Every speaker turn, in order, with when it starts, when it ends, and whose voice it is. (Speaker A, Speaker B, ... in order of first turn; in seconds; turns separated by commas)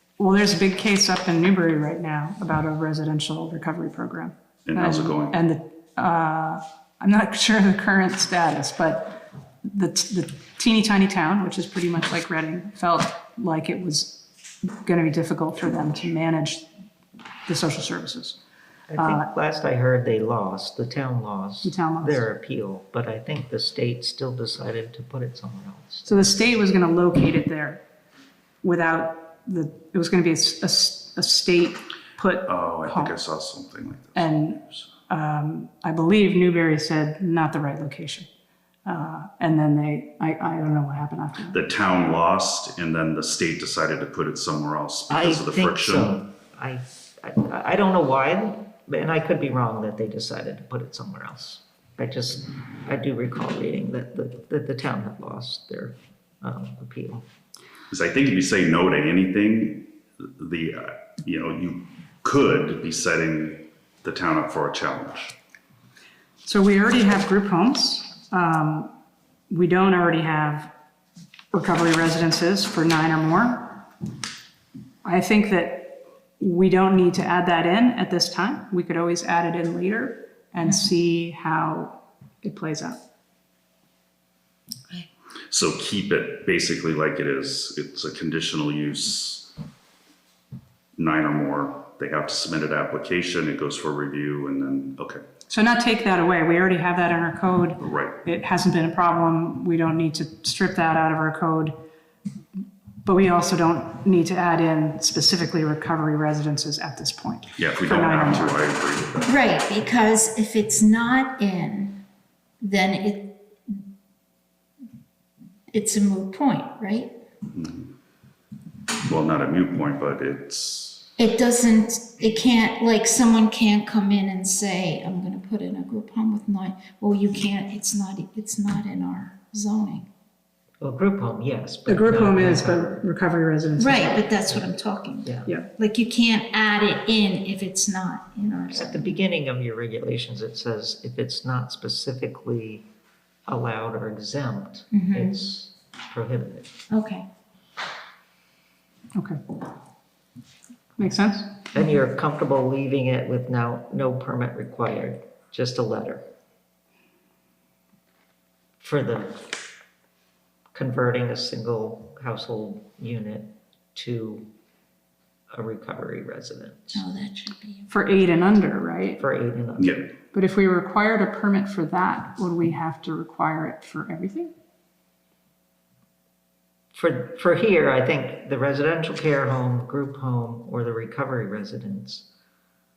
Speaker A: 0.2-16.7, Speaker B: 4.7-5.4, Speaker A: 17.4-18.4, Speaker C: 18.9-26.4, Speaker A: 19.0-19.3, Speaker A: 21.6-22.3, Speaker A: 26.1-27.8, Speaker A: 28.6-33.2, Speaker B: 32.5-34.8, Speaker A: 34.1-38.3, Speaker A: 38.8-41.6, Speaker B: 41.5-46.1, Speaker C: 45.1-57.2, Speaker B: 57.9-65.4, Speaker A: 66.4-68.9, Speaker A: 69.5-70.7, Speaker A: 71.5-73.8, Speaker A: 75.0-83.0, Speaker B: 85.5-89.5, Speaker B: 91.0-95.2, Speaker A: 95.5-101.7, Speaker B: 97.8-98.2, Speaker A: 103.0-108.6, Speaker B: 107.6-109.4, Speaker D: 109.2-112.0, Speaker D: 112.6-113.8, Speaker D: 115.7-117.1, Speaker B: 117.5-117.9, Speaker B: 119.0-121.1, Speaker D: 121.2-130.1, Speaker C: 130.8-133.1, Speaker A: 131.9-134.2, Speaker D: 133.8-139.1, Speaker C: 138.7-142.8, Speaker C: 143.5-146.7, Speaker D: 144.9-145.4, Speaker D: 146.9-147.2, Speaker A: 149.1-149.4, Speaker A: 151.0-151.6, Speaker C: 151.7-156.2, Speaker C: 158.8-159.5, Speaker C: 160.7-164.5, Speaker C: 165.5-167.0, Speaker D: 166.9-167.9, Speaker A: 167.9-169.2, Speaker C: 169.2-169.9, Speaker B: 169.8-170.1, Speaker A: 170.3-174.5, Speaker C: 176.9-182.3